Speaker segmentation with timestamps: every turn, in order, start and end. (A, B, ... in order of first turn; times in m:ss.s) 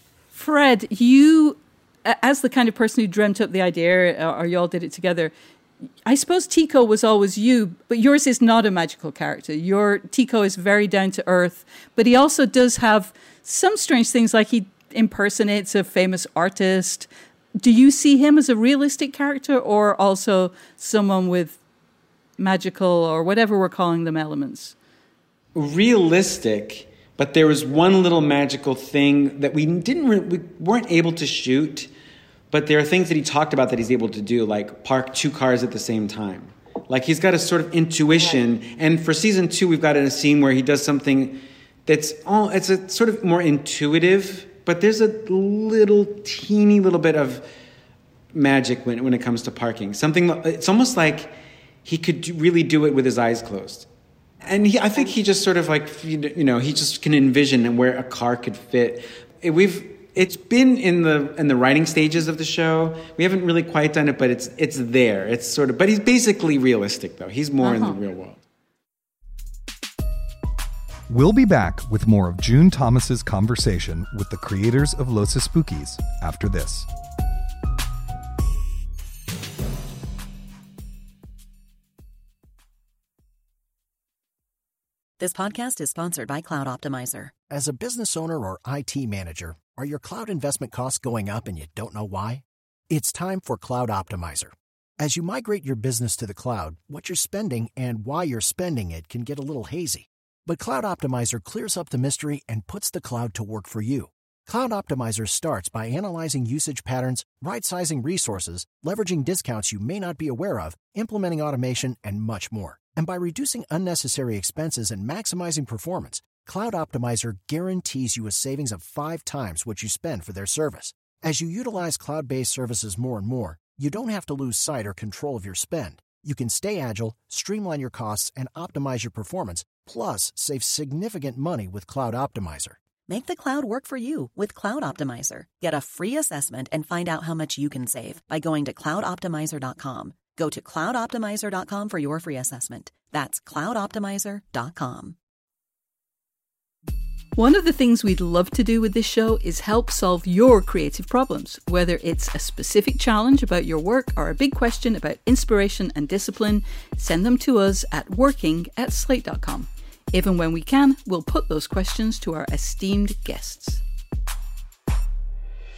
0:00.3-0:05.3 A
0:06.0-0:17.1 A
0:17.6-0:21.6 A
0:22.4-0:24.7 A
0:25.5-0:31.9 B
0:32.5-0:47.4 B
0:48.3-0:53.9 B
0:54.4-1:08.4 B
1:07.6-1:08.0 A
1:11.1-1:16.9 C
1:25.2-1:27.3 D
1:27.5-2:12.8 E
2:13.1-2:25.2 D
2:27.4-2:43.8 A